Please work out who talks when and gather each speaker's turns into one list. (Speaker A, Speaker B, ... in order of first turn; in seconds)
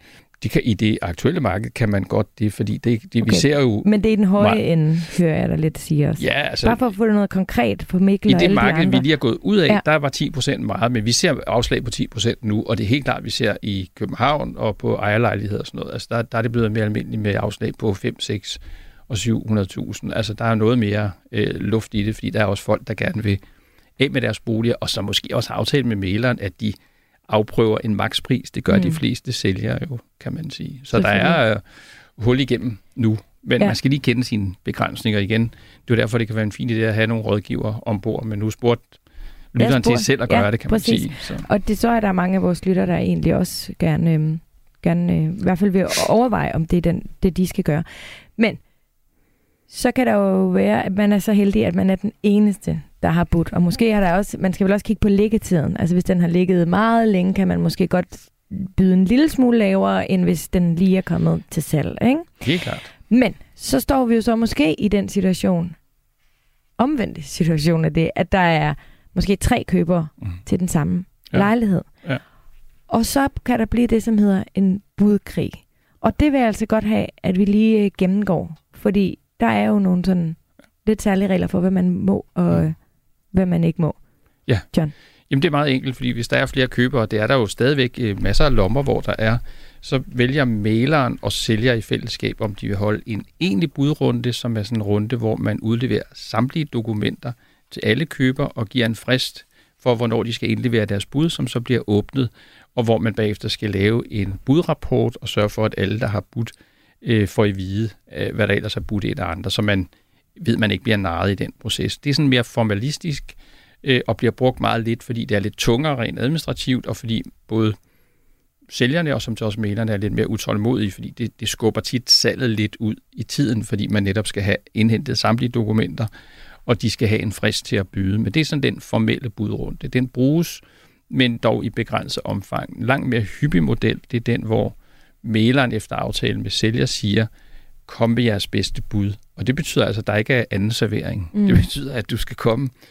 Speaker A: 0.4-4.6, 6.2-6.8, 8.3-23.4, 24.0-26.8, 27.3-31.6, 32.1-38.9, 39.5-41.4, 62.4-62.9, 85.3-117.8, 118.7-126.1, 126.7-137.3, 137.9-142.7
Speaker B: 3.2-9.0, 28.7-29.0, 30.9-31.4, 39.6-48.6, 49.7-62.3, 63.1-65.8, 66.8-71.9, 72.9-82.8, 83.3-84.0, 141.3-141.6